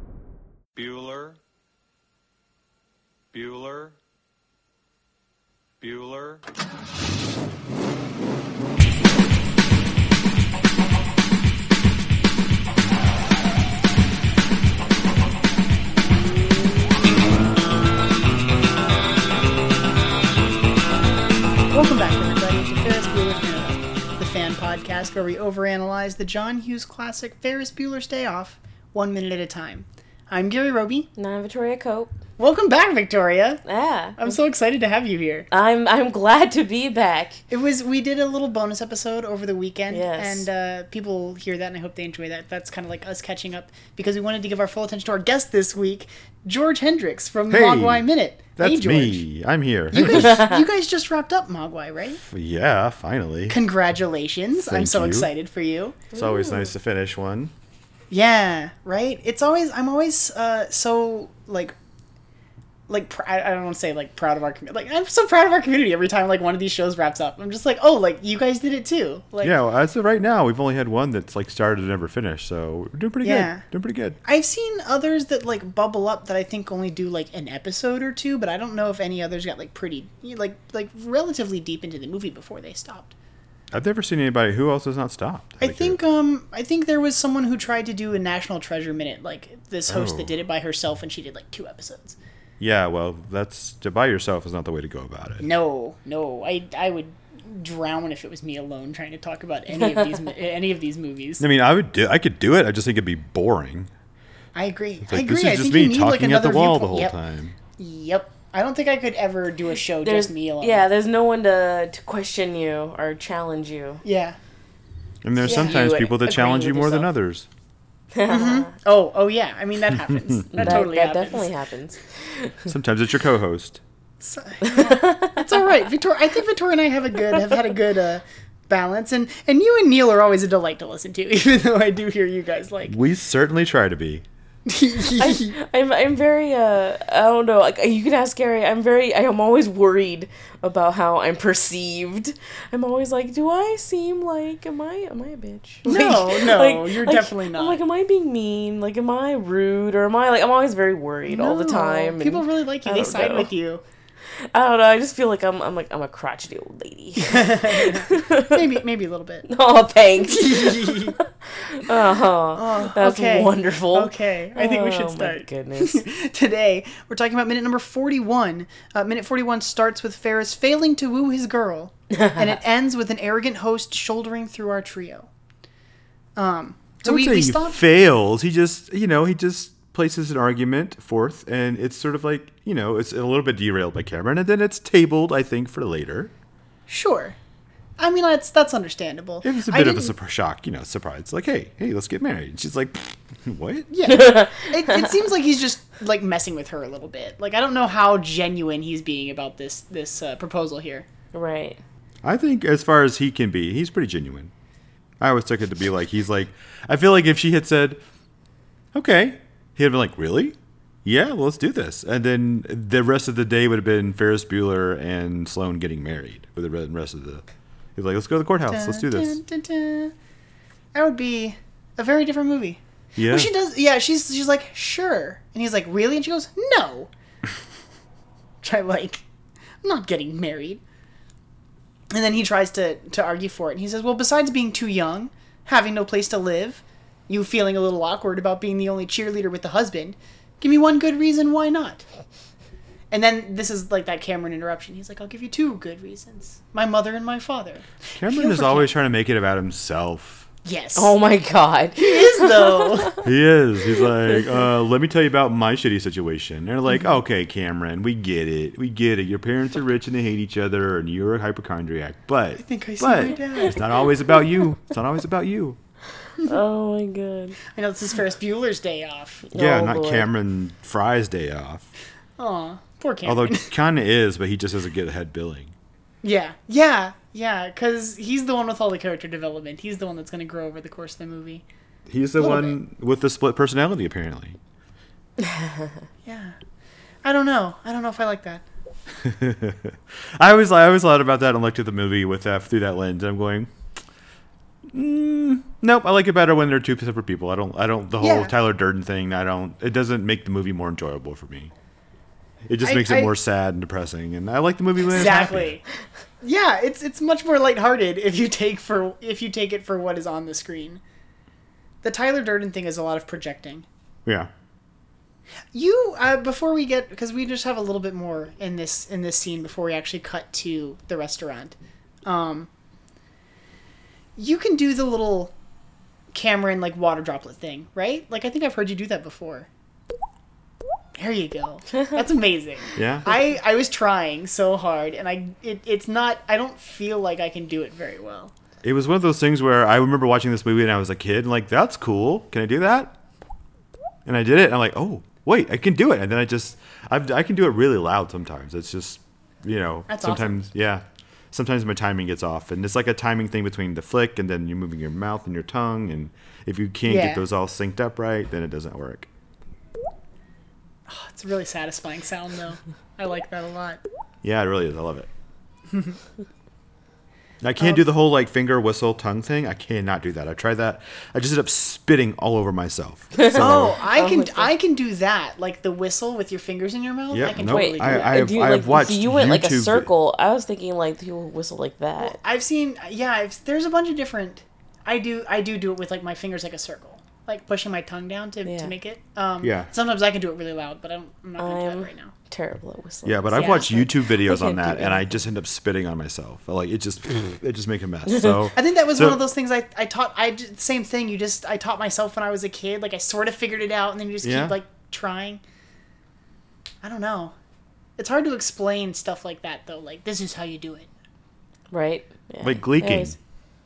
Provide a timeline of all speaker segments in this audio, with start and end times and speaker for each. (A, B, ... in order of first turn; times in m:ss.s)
0:00.8-0:01.4 A
0:03.3-0:04.0 A
0:05.8-0:06.4 A
0:21.7-0:31.1 B
0:31.2-0:32.1 C
0:32.4-0:33.6 B
0:33.7-0:34.4 C
0:34.2-0:35.5 B
0:35.5-0:37.4 C
0:37.5-0:49.2 B
0:39.9-0:40.5 C
0:47.5-0:50.5 D
0:49.9-0:52.2 B
0:50.1-0:50.6 C
0:52.3-0:53.6 D
0:53.5-0:56.0 B
0:54.6-0:55.3 D
0:56.1-0:56.7 C
0:56.1-0:57.5 D
0:58.1-1:01.7 B
1:02.9-1:09.6 B
1:09.4-1:14.2 D
1:13.2-1:13.7 B
1:14.2-1:23.1 B
1:23.7-1:26.0 D
1:25.6-1:32.2 B
1:29.9-1:30.3 D
1:32.6-1:35.5 D
1:35.4-1:41.4 B
1:41.4-1:43.9 D
1:44.6-1:47.2 B
1:45.1-1:47.6 D
1:47.8-1:50.9 B
1:50.0-1:54.0 C
1:54.0-1:54.4 B
1:55.2-1:57.5 D
1:55.4-1:57.1 C
1:55.4-1:55.8 B
1:58.1-1:58.7 C
1:58.3-2:01.5 B
2:00.1-2:00.8 D
2:00.5-2:02.7 C
2:02.7-2:03.8 D
2:04.2-2:13.0 B
2:04.6-2:05.7 C
2:12.9-2:14.2 D
2:14.7-2:15.5 B
2:15.2-2:33.5 C
2:25.8-2:27.8 B
2:31.3-2:33.8 B
2:34.4-2:38.6 C
2:37.2-2:39.5 B
2:39.4-2:46.0 C
2:40.2-2:41.2 B
2:42.5-2:55.3 B
2:52.1-2:52.6 C
2:56.4-2:57.8 B
2:57.0-3:06.3 D
3:06.9-3:07.4 B
3:08.0-3:10.1 B
3:09.4-3:13.9 D
3:13.9-3:21.1 B
3:14.1-3:15.1 C
3:21.3-3:21.8 C
3:22.2-3:24.5 D
3:25.2-3:28.0 D
3:28.9-3:37.4 D
3:38.0-3:39.4 D
3:38.7-3:40.1 B
3:40.9-3:47.1 B
3:43.2-3:43.5 D
3:48.6-3:49.2 B
3:49.8-3:50.8 B
3:52.1-4:02.0 B
4:03.1-4:08.9 B
4:08.2-4:10.5 D
4:10.6-4:11.2 B
4:11.0-4:13.2 C
4:12.0-4:13.2 B
4:13.2-4:25.8 D
4:22.6-4:23.9 B
4:26.4-4:27.6 C
4:27.7-4:29.5 B
4:29.5-4:30.3 C
4:29.5-4:31.9 D
4:32.4-4:33.7 B
4:33.2-4:35.7 D
4:36.2-4:41.6 B
4:42.1-4:44.6 D
4:42.4-4:42.8 B
4:45.4-4:45.9 C
4:46.2-4:46.6 B
4:47.2-4:48.6 B
4:49.2-4:53.7 D
4:54.9-5:01.7 D
4:58.2-4:58.5 B
5:02.6-5:05.8 D
5:02.8-5:03.3 B
5:05.1-5:05.8 B
5:06.4-5:11.0 B
5:12.0-5:13.8 B
5:14.2-5:14.5 D
5:15.7-5:22.7 B
5:24.4-5:25.5 B
5:26.3-5:29.7 B
5:31.2-5:38.5 B
5:33.0-5:33.3 D
5:38.8-5:43.2 D
5:44.2-5:59.3 D
5:50.1-5:50.7 B
5:57.1-5:57.4 B
6:01.1-6:04.0 B
6:04.4-6:05.3 D
6:05.9-6:06.2 B
6:07.6-6:14.0 D
6:07.8-6:08.1 B
6:13.4-6:14.7 C
6:13.5-6:18.5 B
6:17.3-6:20.1 D
6:17.6-6:22.4 C
6:22.2-6:32.3 B
6:28.6-6:28.9 C
6:29.6-6:29.9 D
6:31.6-6:35.4 C
6:33.2-6:39.4 D
6:33.5-6:34.0 B
6:38.3-6:38.6 C
6:38.7-6:45.6 B
6:44.4-6:44.8 D
6:47.0-6:47.5 B
6:48.2-6:51.1 B
6:51.9-6:53.4 C
6:52.6-6:53.4 D